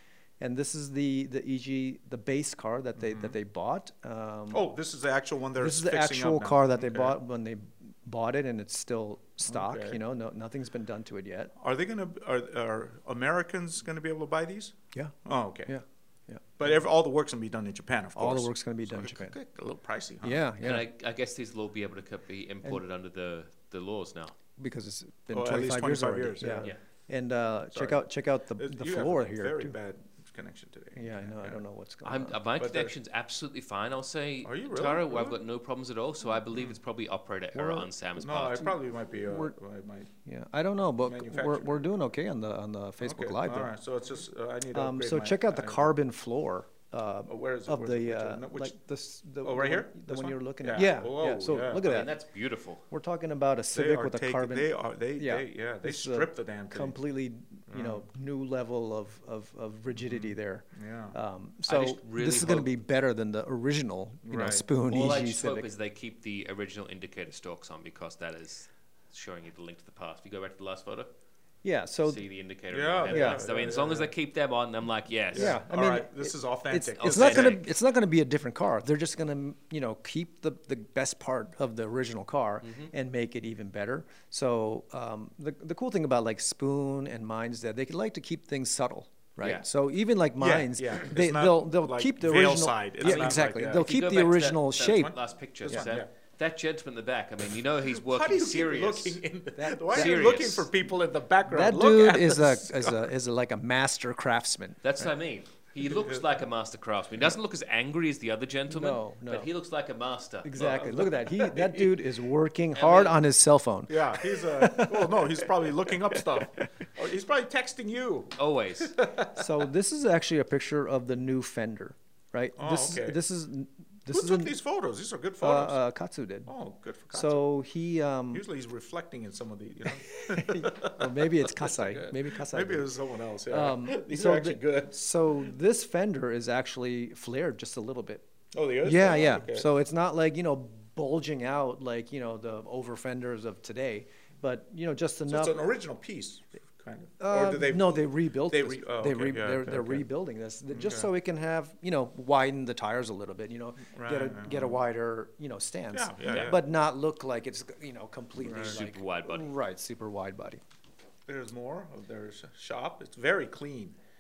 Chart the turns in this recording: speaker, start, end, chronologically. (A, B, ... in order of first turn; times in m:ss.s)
0:00.4-0:04.7 A
0:03.0-0:03.4 B
0:04.5-0:07.2 B
0:05.6-0:11.5 A
0:09.4-0:10.0 B
0:11.6-0:15.7 B
0:15.7-0:16.7 A
0:16.6-0:20.4 B
0:18.2-0:19.4 A
0:20.2-0:20.9 A
0:20.6-0:24.3 C
0:24.6-0:29.8 A
0:25.3-0:26.7 B
0:27.7-0:28.0 B
0:28.6-0:31.6 B
0:31.0-0:32.4 A
0:32.0-0:38.7 C
0:32.6-0:32.9 B
0:34.4-0:35.4 B
0:37.6-0:37.9 A
0:38.2-0:40.1 B
0:39.2-0:39.5 A
0:40.2-0:43.7 A
0:41.0-0:41.9 B
0:43.0-0:45.9 B
0:44.7-0:52.1 A
0:47.2-0:48.7 B
0:49.4-0:52.0 B
0:51.8-0:52.8 C
0:52.9-1:05.7 A
0:53.7-0:57.0 B
0:57.7-0:58.0 B
1:00.0-1:01.2 B
1:01.7-1:02.7 C
1:04.2-1:04.6 B
1:04.9-1:11.1 C
1:11.6-1:12.2 A
1:12.0-1:15.6 C
1:12.7-1:14.1 B
1:13.0-1:13.5 A
1:15.3-1:17.6 B
1:15.3-1:35.2 A
1:17.0-1:17.6 C
1:22.6-1:22.9 C
1:30.4-1:33.9 B
1:33.0-1:39.2 C
1:35.6-1:36.1 B
1:37.8-1:43.1 B
1:39.6-1:40.5 A
1:39.9-1:40.7 C
1:41.4-1:44.8 A
1:44.8-1:50.8 C
1:45.9-1:46.2 B
1:48.7-1:49.5 A
1:50.4-1:56.7 A
1:50.6-1:52.0 B
1:52.7-1:53.2 C
1:53.9-1:59.5 B
1:58.4-1:59.0 C
1:59.3-2:04.6 A
2:02.6-2:03.2 B
2:04.1-2:05.8 B
2:05.4-2:06.5 A
2:06.5-2:07.4 B
2:07.1-2:08.4 A
2:08.3-2:15.0 B
2:09.9-2:12.9 A
2:13.5-2:18.2 A
2:18.5-2:19.7 B
2:18.8-2:25.6 A
2:25.3-2:30.0 B
2:27.2-2:40.6 A
2:30.7-2:31.1 B
2:33.9-2:34.8 B
2:35.9-2:36.6 B
2:38.4-2:38.8 B
2:38.5-2:39.5 C
2:41.3-2:44.0 B